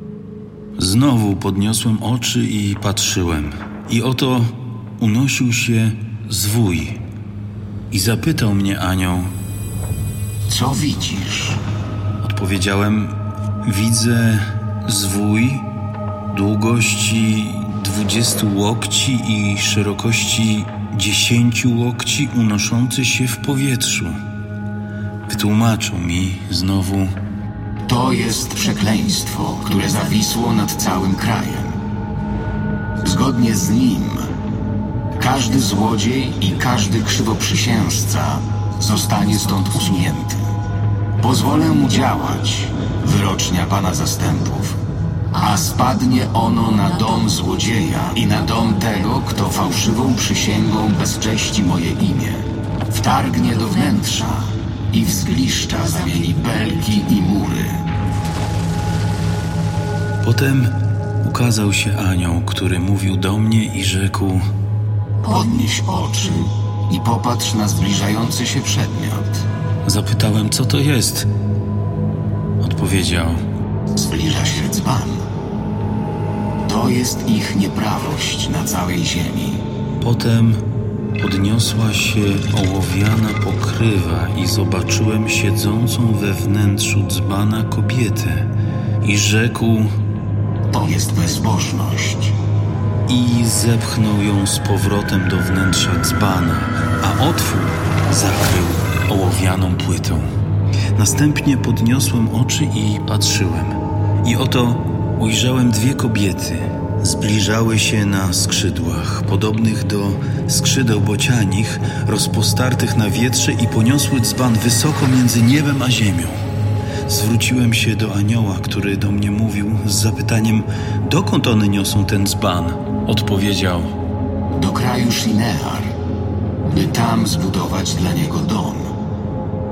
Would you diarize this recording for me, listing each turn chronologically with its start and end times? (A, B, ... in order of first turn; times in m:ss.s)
0:00.8-0:07.0 A
0:07.9-0:09.3 A
0:10.5-0:11.6 B
0:12.2-0:15.8 A
0:16.3-0:24.2 A
0:25.3-0:27.1 A
0:27.8-0:31.8 B
0:33.0-0:34.3 B
0:35.2-0:40.5 B
0:41.2-0:44.8 B
0:45.3-0:57.8 B
1:00.2-1:04.4 A
1:05.2-1:09.4 B
1:09.8-1:11.3 A
1:12.6-1:13.4 A
1:13.9-1:15.2 B
1:16.6-1:19.6 B
1:20.0-1:20.6 A
1:21.2-1:28.5 A
1:29.0-1:29.9 A
1:30.7-1:32.4 B
1:33.1-1:40.3 A
1:41.0-1:56.4 A
1:57.1-2:03.9 A
2:04.5-2:05.9 B
2:06.7-2:08.9 B